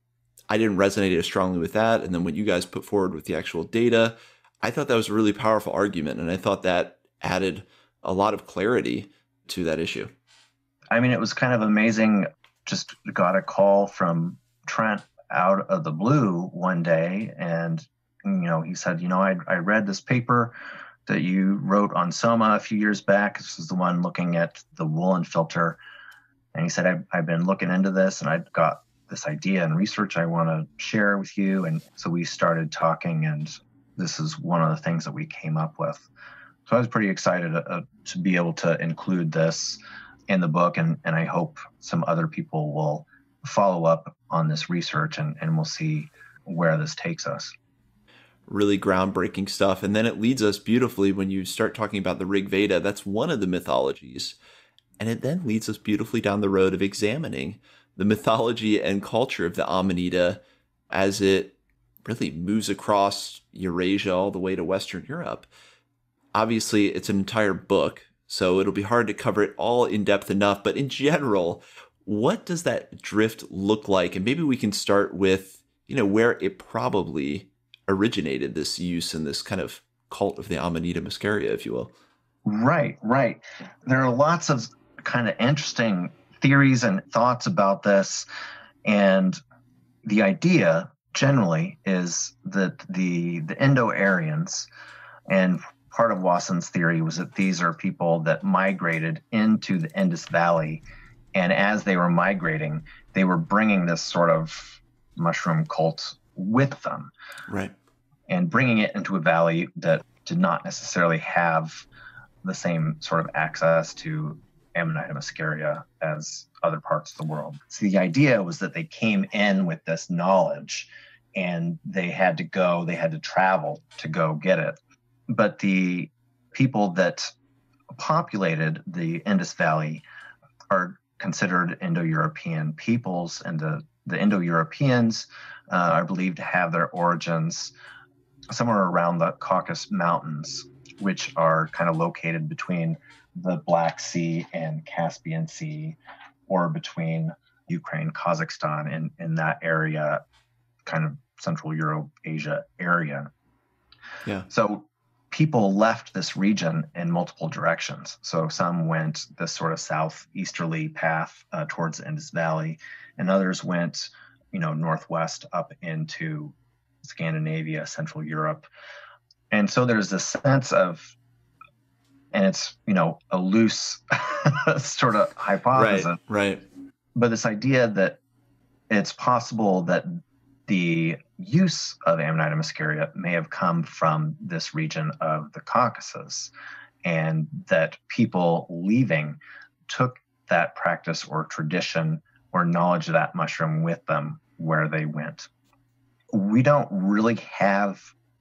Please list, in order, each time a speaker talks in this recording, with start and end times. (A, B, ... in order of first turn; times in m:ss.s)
0:00.5-0:10.1 A
0:10.9-0:20.5 B
0:21.0-0:25.8 B
0:26.5-0:36.1 B
0:36.6-0:47.5 B
0:48.5-0:54.4 A
0:55.0-1:05.5 A
1:06.3-1:21.9 A
1:22.4-1:28.2 B
1:28.8-1:29.4 B
1:30.0-1:34.7 B
1:35.3-1:40.8 B
1:41.3-1:47.1 B
1:47.5-1:47.7 A
1:48.3-1:51.8 B
1:52.4-2:04.8 B
2:05.3-2:07.3 B
2:07.9-2:10.0 B
2:10.7-2:17.7 B
2:18.5-2:30.2 B
2:30.8-2:33.3 B
2:34.5-2:48.7 B
2:49.5-2:51.1 B
2:52.3-2:56.2 B
2:55.7-2:56.6 A
2:57.1-2:58.2 B
2:58.9-3:06.5 B
3:07.0-3:15.5 B
3:16.3-3:18.1 B